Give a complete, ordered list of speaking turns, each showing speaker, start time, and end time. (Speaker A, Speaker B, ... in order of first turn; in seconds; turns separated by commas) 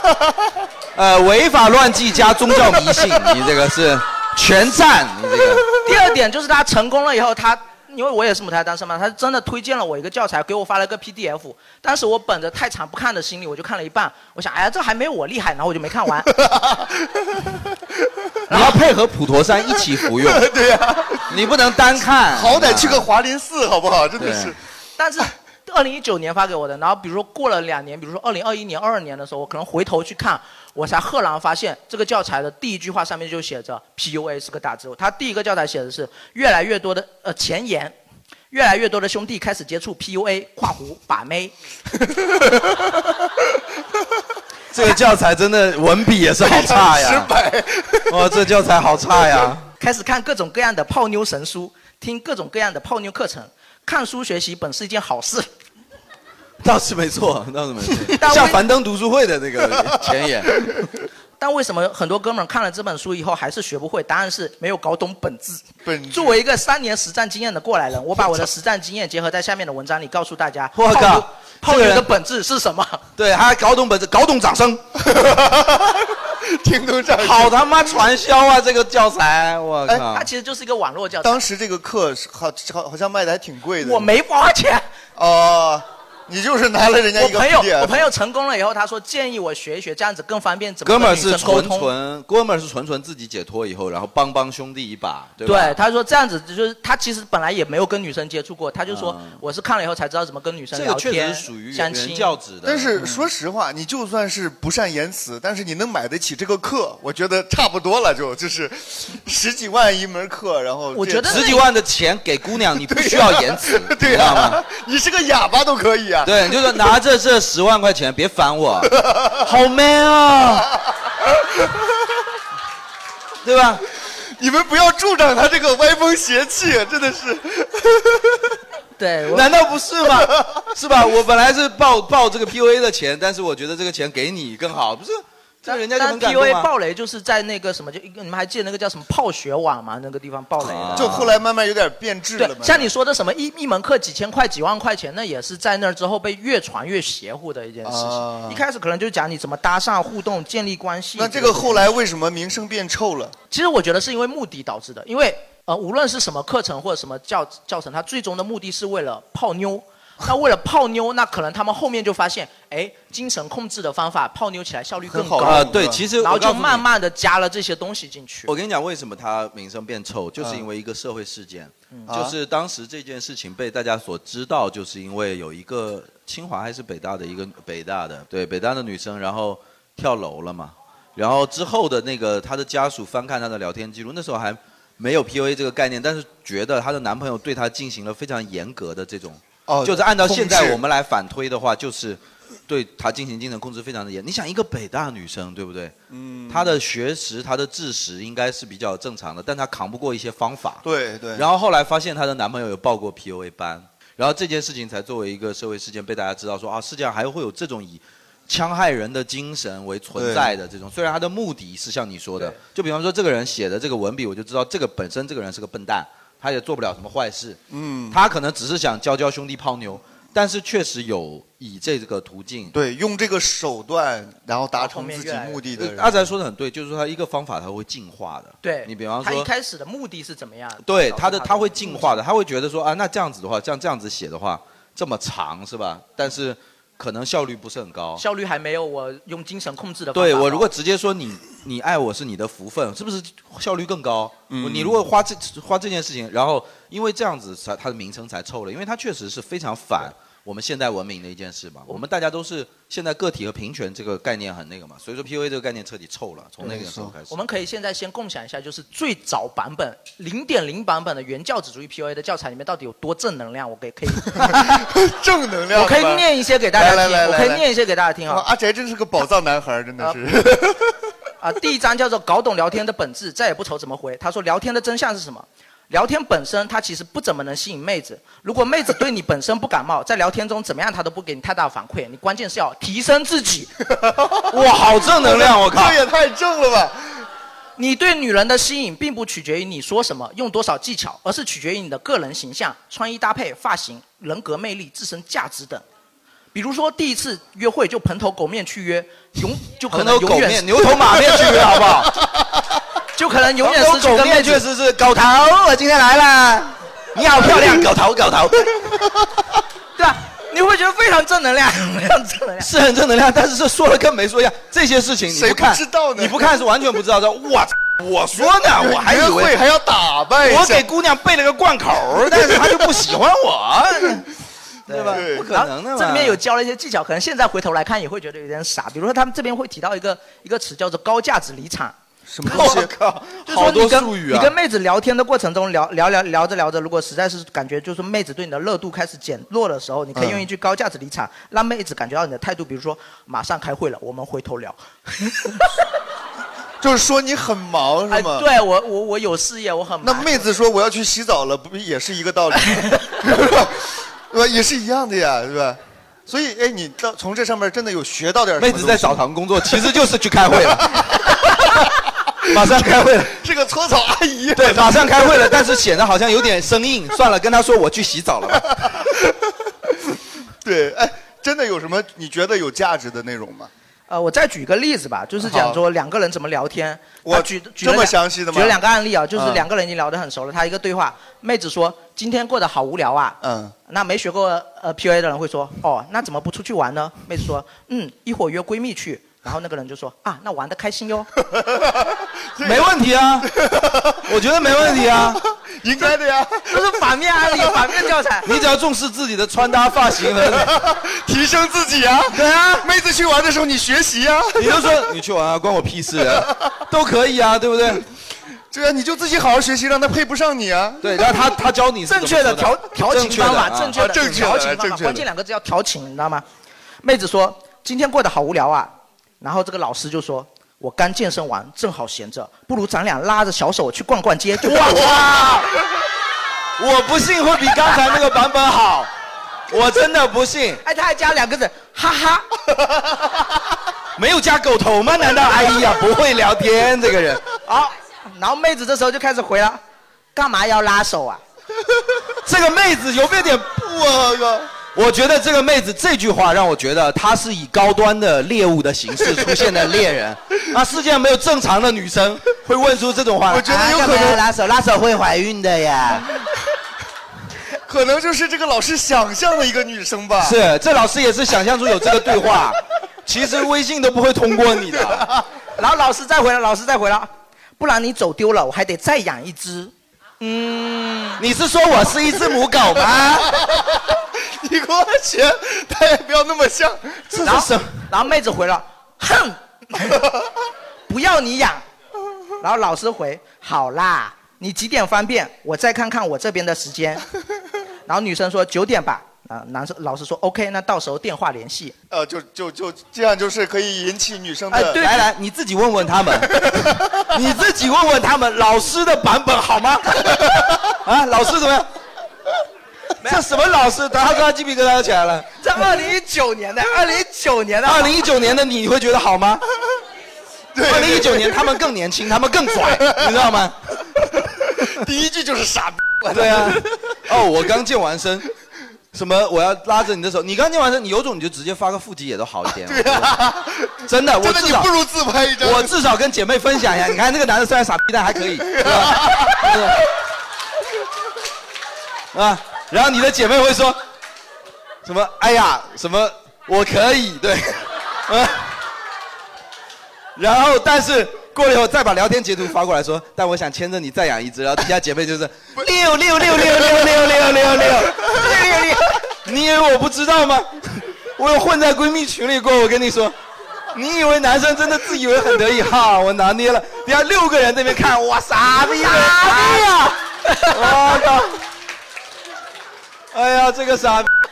Speaker A: 0.9-5.7, Speaker B: 5.8-16.3, Speaker C: 16.4-18.6, Speaker A: 18.5-20.5, Speaker C: 19.8-21.5, Speaker A: 21.3-23.1, Speaker C: 22.0-24.6, Speaker A: 24.2-24.5, Speaker B: 25.0-37.9, Speaker B: 38.5-41.5, Speaker A: 44.7-47.3, Speaker C: 46.4-48.3, Speaker A: 48.0-49.7, Speaker B: 49.8-55.5, Speaker A: 56.6-60.8, Speaker B: 58.2-58.6, Speaker B: 61.4-73.0, Speaker C: 65.8-66.4, Speaker A: 70.7-72.1, Speaker A: 73.2-74.8, Speaker C: 75.0-77.6, Speaker A: 77.2-80.3, Speaker B: 80.1-81.4, Speaker C: 81.2-84.1, Speaker B: 83.8-84.8, Speaker C: 85.2-88.1, Speaker B: 87.1-91.9, Speaker A: 90.8-95.8, Speaker B: 95.4-102.3, Speaker A: 98.9-99.4, Speaker A: 100.7-103.0, Speaker C: 102.6-111.5, Speaker B: 110.9-111.6, Speaker A: 111.3-114.6, Speaker C: 112.7-116.8, Speaker A: 116.2-120.7, Speaker C: 118.9-119.4, Speaker A: 123.4-123.8, Speaker C: 124.0-128.6, Speaker B: 129.0-129.5, Speaker A: 129.3-136.7, Speaker B: 135.7-141.2, Speaker A: 140.6-141.4, Speaker C: 140.9-142.9, Speaker B: 142.4-151.9, Speaker C: 147.8-148.6, Speaker C: 151.2-153.3, Speaker B: 153.5-168.5, Speaker C: 165.1-166.0, Speaker A: 165.4-166.8, Speaker A: 168.5-195.9, Speaker C: 172.1-172.3, Speaker C: 189.7-190.8, Speaker C: 196.1-196.8, Speaker A: 196.5-200.8, Speaker C: 200.8-201.5, Speaker A: 201.3-217.6, Speaker C: 210.1-210.5, Speaker C: 217.7-218.2, Speaker A: 218.1-222.7, Speaker C: 222.7-226.2, Speaker B: 224.8-225.6, Speaker A: 225.8-229.5, Speaker B: 228.6-232.1, Speaker A: 230.8-238.2, Speaker B: 238.2-240.7, Speaker A: 240.1-257.4, Speaker C: 244.5-245.0, Speaker C: 256.6-257.1, Speaker B: 257.3-264.6, Speaker C: 264.4-267.6, Speaker B: 265.7-268.4, Speaker C: 268.3-271.0, Speaker B: 271.4-283.7, Speaker C: 284.0-284.4, Speaker A: 284.5-286.0, Speaker C: 285.1-287.2, Speaker B: 287.8-295.8, Speaker B: 296.5-300.7, Speaker A: 299.9-302.2, Speaker B: 303.1-304.6, Speaker A: 303.6-309.1, Speaker B: 310.0-312.7, Speaker A: 312.6-319.6, Speaker C: 315.3-316.6, Speaker C: 318.5-320.9, Speaker A: 320.4-324.3, Speaker A: 324.9-326.4, Speaker B: 324.9-331.9, Speaker C: 325.1-325.5, Speaker C: 332.3-332.9, Speaker A: 332.4-334.5, Speaker B: 333.5-345.7, Speaker C: 340.1-340.4, Speaker C: 346.8-348.5, Speaker B: 348.1-350.5, Speaker C: 350.0-359.9, Speaker A: 358.6-361.2, Speaker C: 360.7-361.4, Speaker A: 362.4-363.4, Speaker C: 363.2-365.6, Speaker A: 364.5-369.0, Speaker C: 368.9-369.3, Speaker C: 370.6-373.7, Speaker B: 374.1-391.3, Speaker C: 375.4-375.8, Speaker C: 377.2-378.8, Speaker C: 379.3-379.6, Speaker C: 383.4-383.7, Speaker C: 391.5-392.9, Speaker A: 392.6-393.5, Speaker C: 393.4-397.0, Speaker A: 394.2-395.4, Speaker B: 396.7-398.5, Speaker C: 397.5-398.0, Speaker A: 398.4-400.8, Speaker C: 400.4-404.9, Speaker A: 402.3-402.9, Speaker A: 404.6-408.1, Speaker C: 408.7-411.2, Speaker A: 411.0-414.0, Speaker B: 412.1-416.4, Speaker C: 413.9-415.2, Speaker B: 417.0-425.2, Speaker A: 424.6-425.7, Speaker A: 426.8-429.1, Speaker A: 429.7-430.8, Speaker B: 430.8-432.5, Speaker A: 434.1-437.4, Speaker B: 437.6-439.8, Speaker B: 440.3-441.4, Speaker A: 442.4-443.9, Speaker C: 443.8-444.7, Speaker A: 444.9-456.3, Speaker C: 453.5-454.4, Speaker C: 457.9-460.6, Speaker A: 460.4-465.4, Speaker B: 465.8-471.4, Speaker A: 471.4-473.6, Speaker C: 473.5-477.4, Speaker A: 477.3-478.0, Speaker B: 477.4-480.3, Speaker B: 481.1-481.8, Speaker B: 482.6-487.2, Speaker B: 488.1-491.9, Speaker C: 492.1-495.0, Speaker B: 494.7-495.2, Speaker A: 494.9-501.9, Speaker C: 496.6-497.2, Speaker A: 503.2-505.5, Speaker B: 505.6-508.2, Speaker A: 507.8-509.6, Speaker C: 510.7-511.6, Speaker A: 510.8-514.0, Speaker C: 514.5-516.9, Speaker A: 516.3-518.5, Speaker A: 519.1-523.5, Speaker C: 522.8-525.9, Speaker A: 524.0-524.9, Speaker A: 525.6-530.0, Speaker C: 528.6-529.7, Speaker A: 532.3-534.0, Speaker A: 535.0-538.7, Speaker A: 540.4-548.5, Speaker B: 548.3-549.0, Speaker A: 549.4-553.3, Speaker A: 553.9-560.2, Speaker B: 559.0-559.9, Speaker B: 560.4-561.0, Speaker A: 560.7-561.6, Speaker A: 563.3-564.3